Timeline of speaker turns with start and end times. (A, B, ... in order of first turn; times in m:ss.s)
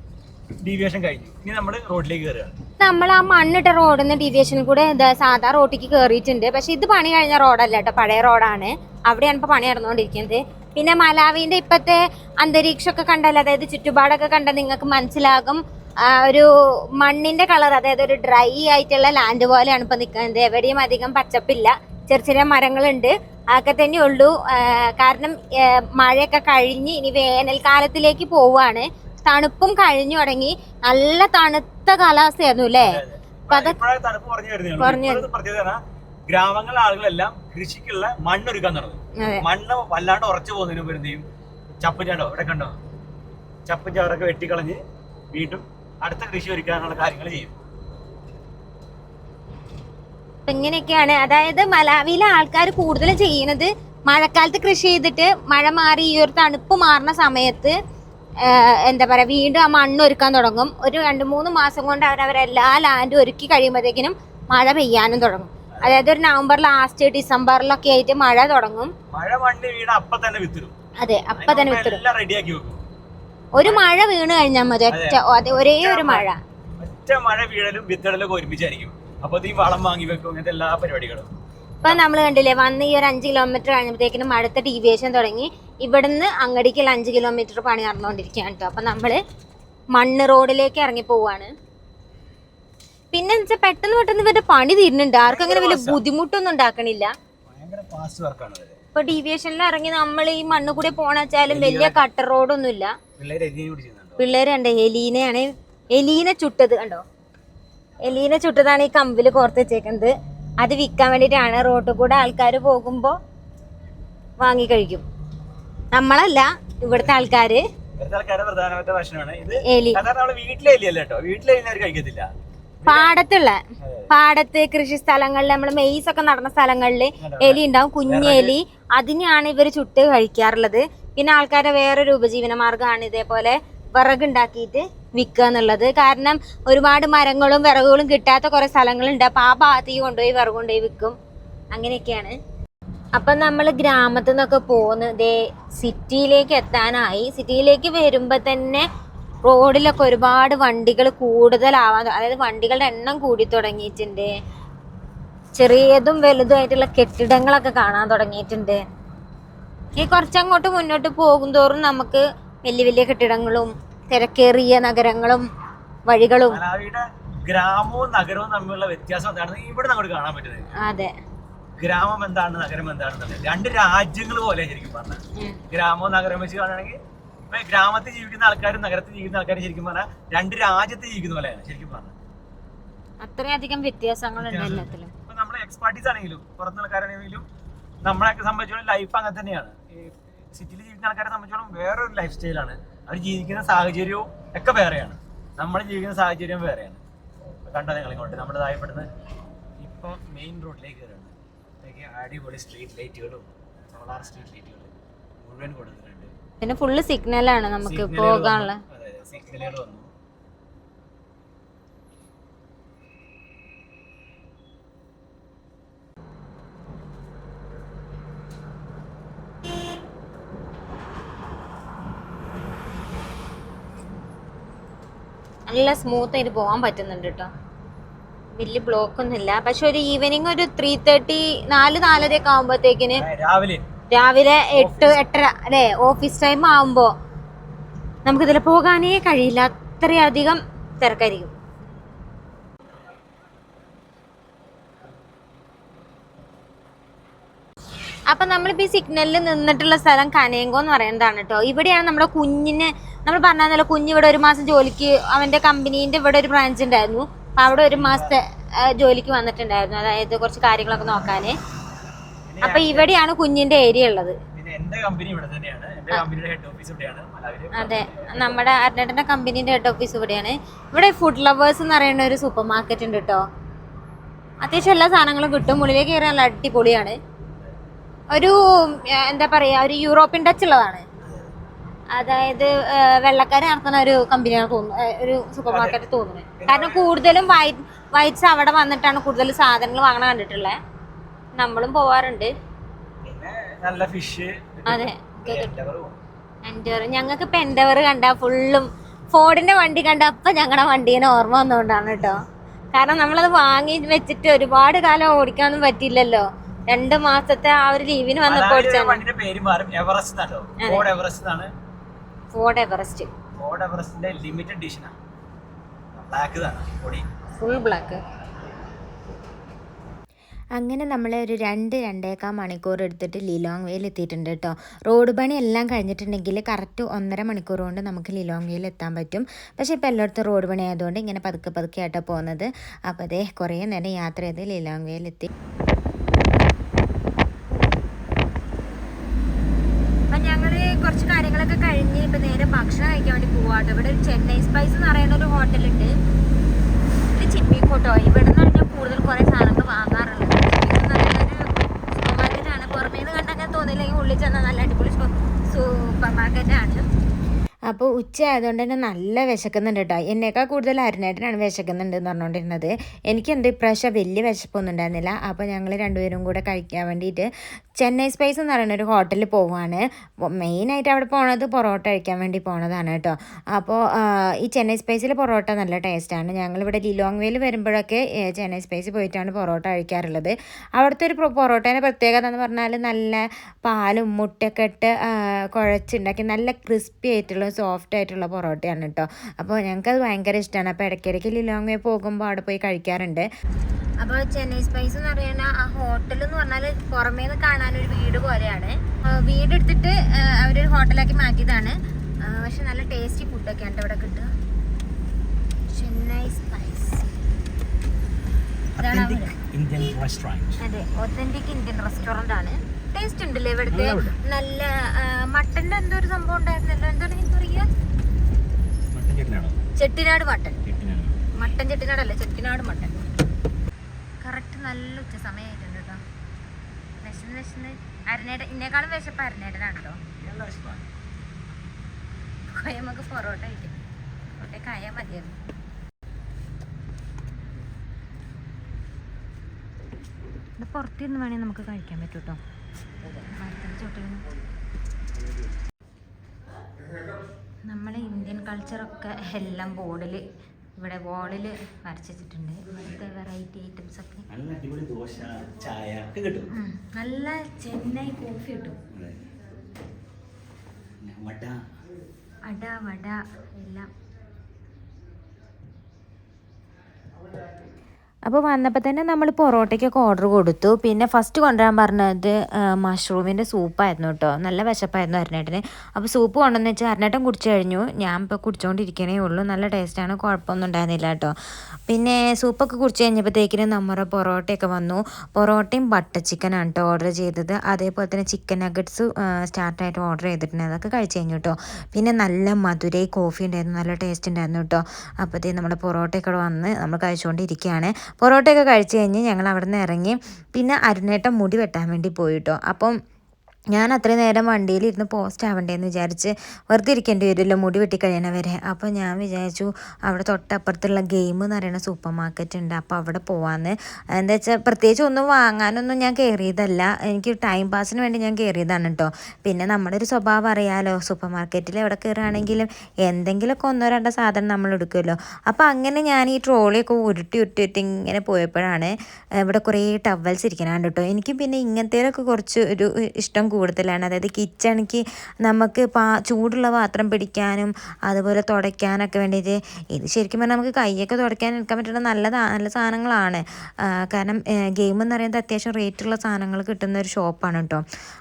0:00.6-0:02.6 A
0:02.8-0:33.0 B
0:32.8-0:41.2 A
0:33.5-0:33.8 B
0:34.8-0:35.3 B
0:39.2-0:39.4 B
0:41.8-0:42.8 A
0:43.7-0:44.8 A
0:45.3-0:47.5 A
0:50.5-0:57.8 B
0:58.4-1:08.9 B
1:05.7-1:06.0 A
1:09.1-1:10.8 A
1:11.0-1:12.0 B
1:11.4-1:12.8 A
1:13.6-1:16.4 B
1:14.9-1:15.2 A
1:15.8-1:16.3 A
1:16.8-1:21.3 A
1:21.8-1:29.2 B
1:29.9-1:31.5 B
1:33.1-1:37.1 B
1:35.2-1:36.0 A
1:37.5-1:38.8 A
1:39.0-1:43.0 B
1:41.5-1:42.0 A
1:43.2-1:44.2 A
1:44.2-1:47.0 B
1:48.0-1:53.2 B
1:54.4-1:55.0 B
1:55.9-1:57.6 B
1:56.9-1:57.3 A
1:58.0-2:02.3 A
1:59.6-2:00.0 B
2:02.8-2:03.2 A
2:02.9-2:21.2 B
2:03.8-2:04.1 A
2:07.2-2:08.6 A
2:21.7-2:22.4 B
2:23.2-2:28.9 B
2:29.5-2:34.3 B
2:35.6-2:38.8 B
2:40.0-2:45.5 B
2:46.1-2:46.6 B
2:46.5-2:50.6 A
2:50.8-2:51.1 B
2:51.8-2:57.0 A
2:57.5-3:02.1 A
3:03.2-3:05.1 B
3:04.4-3:07.4 A
3:08.0-3:17.0 A
3:17.7-3:19.1 A
3:19.8-3:26.3 A
3:26.6-3:28.8 B
3:27.8-3:30.1 A
3:45.7-3:47.5 B
3:48.6-3:53.2 B
3:53.2-3:53.8 A
3:54.1-3:57.1 B
3:54.7-3:55.2 A
3:58.2-4:01.5 B
4:08.3-4:21.6 B
4:17.6-4:18.4 A
4:22.5-4:23.1 A
4:22.6-4:24.4 B
4:24.6-4:28.6 A
4:27.7-4:33.4 B
4:34.6-4:37.2 B
4:38.3-4:41.0 B
4:41.2-4:41.5 A
4:42.1-4:50.8 B
4:45.7-4:46.0 A
4:46.6-4:47.1 A
4:51.6-4:52.5 B
4:53.2-4:56.2 A
4:54.9-4:55.7 B
4:56.7-5:02.4 B
5:02.9-5:09.2 B
5:08.5-5:11.7 A
5:10.8-5:11.1 B
5:12.5-5:13.3 B
5:13.6-5:15.1 A
5:16.1-5:17.3 A
5:17.6-5:18.2 B
5:20.8-5:35.5 C
5:40.3-5:46.1 B
5:47.3-5:57.1 B
5:57.9-6:33.5 C
6:34.2-6:44.5 B
6:45.9-6:47.3 B
6:49.0-6:49.6 B
6:49.0-6:50.8 A
6:50.8-6:57.9 B
6:53.9-6:54.4 A
6:59.1-6:59.8 A
7:00.0-7:00.8 B
7:00.9-7:01.4 A
7:01.6-7:03.2 B
7:04.4-7:06.2 B
7:07.2-7:10.2 B
7:10.4-7:11.0 A
7:12.7-7:14.0 B
7:14.6-7:15.6 B
7:20.8-7:22.6 B
7:23.3-7:24.4 B
7:27.9-7:30.4 B
7:31.0-7:34.4 B
7:34.5-7:36.7 A
7:36.7-7:39.0 B
7:39.1-7:39.4 A
7:41.2-7:41.8 A
7:42.7-7:44.1 B
7:48.5-8:01.5 C
8:02.1-8:23.2 C
8:23.9-9:08.0 C